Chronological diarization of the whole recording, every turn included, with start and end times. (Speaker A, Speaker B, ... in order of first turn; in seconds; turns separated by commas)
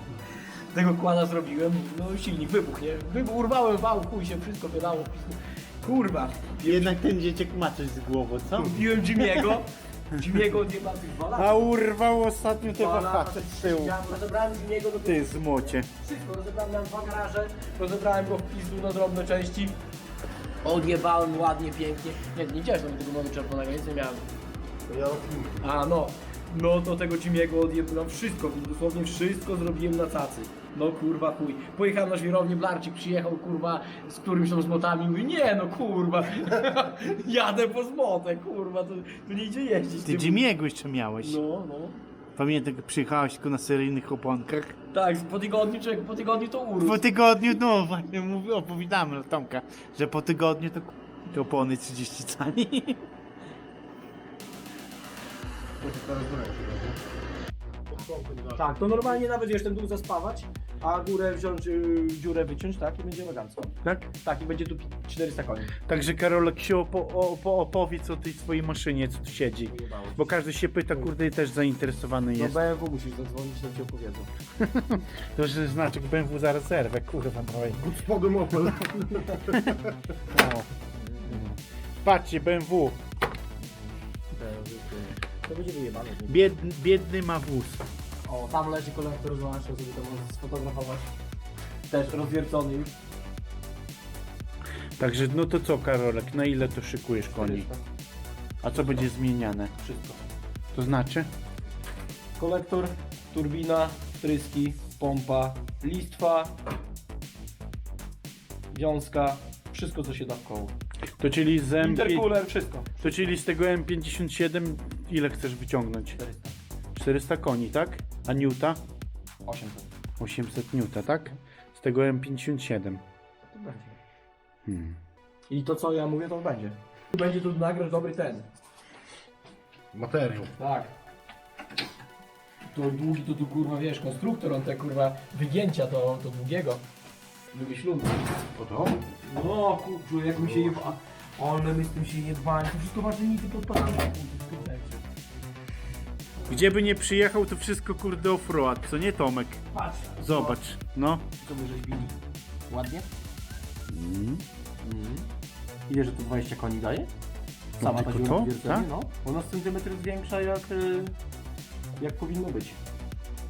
Speaker A: 0.7-7.0, Speaker B: 6.6-9.6, Speaker A: 8.6-11.7, Speaker B: 11.3-14.0, Speaker A: 12.6-19.8, Speaker B: 15.0-15.9, Speaker A: 20.6-24.2, Speaker C: 24.9-25.6, Speaker A: 25.6-40.4, Speaker B: 40.0-41.4, Speaker A: 41.2-42.0, Speaker B: 42.4-44.7, Speaker A: 44.9-47.0, Speaker B: 46.8-53.1, Speaker C: 55.8-57.0, Speaker C: 57.9-59.1, Speaker A: 58.5-65.8, Speaker B: 63.8-64.1, Speaker B: 65.8-72.6, Speaker A: 69.7-70.4, Speaker A: 72.3-74.3, Speaker B: 74.6-78.0, Speaker C: 77.9-79.5, Speaker B: 79.5-80.7, Speaker A: 81.0-81.5, Speaker B: 82.0-83.0, Speaker A: 84.3-86.5, Speaker B: 86.3-87.8, Speaker A: 88.2-91.1, Speaker A: 91.9-92.9, Speaker B: 95.0-97.7, Speaker A: 97.3-97.8, Speaker B: 98.6-99.7, Speaker A: 99.8-100.2, Speaker B: 100.7-101.3, Speaker A: 102.4-106.5, Speaker A: 108.7-110.7, Speaker B: 111.2-112.3, Speaker A: 111.8-113.1, Speaker B: 113.0-116.2, Speaker A: 116.2-116.5, Speaker B: 116.9-118.8, Speaker A: 119.5-119.9, Speaker B: 120.2-123.0, Speaker A: 123.5-124.0, Speaker B: 124.7-125.0, Speaker A: 125.5-128.5, Speaker C: 129.9-130.5, Speaker A: 130.6-130.9, Speaker A: 132.7-136.8, Speaker A: 137.5-138.3, Speaker C: 138.5-139.0, Speaker A: 139.1-145.0, Speaker C: 140.4-140.7, Speaker B: 146.4-151.3, Speaker A: 149.7-150.6, Speaker A: 151.4-152.2, Speaker A: 152.7-153.1, Speaker B: 153.9-154.4, Speaker A: 154.8-155.3, Speaker A: 155.9-157.1, Speaker B: 157.8-158.9, Speaker A: 157.8-161.1, Speaker A: 162.0-162.8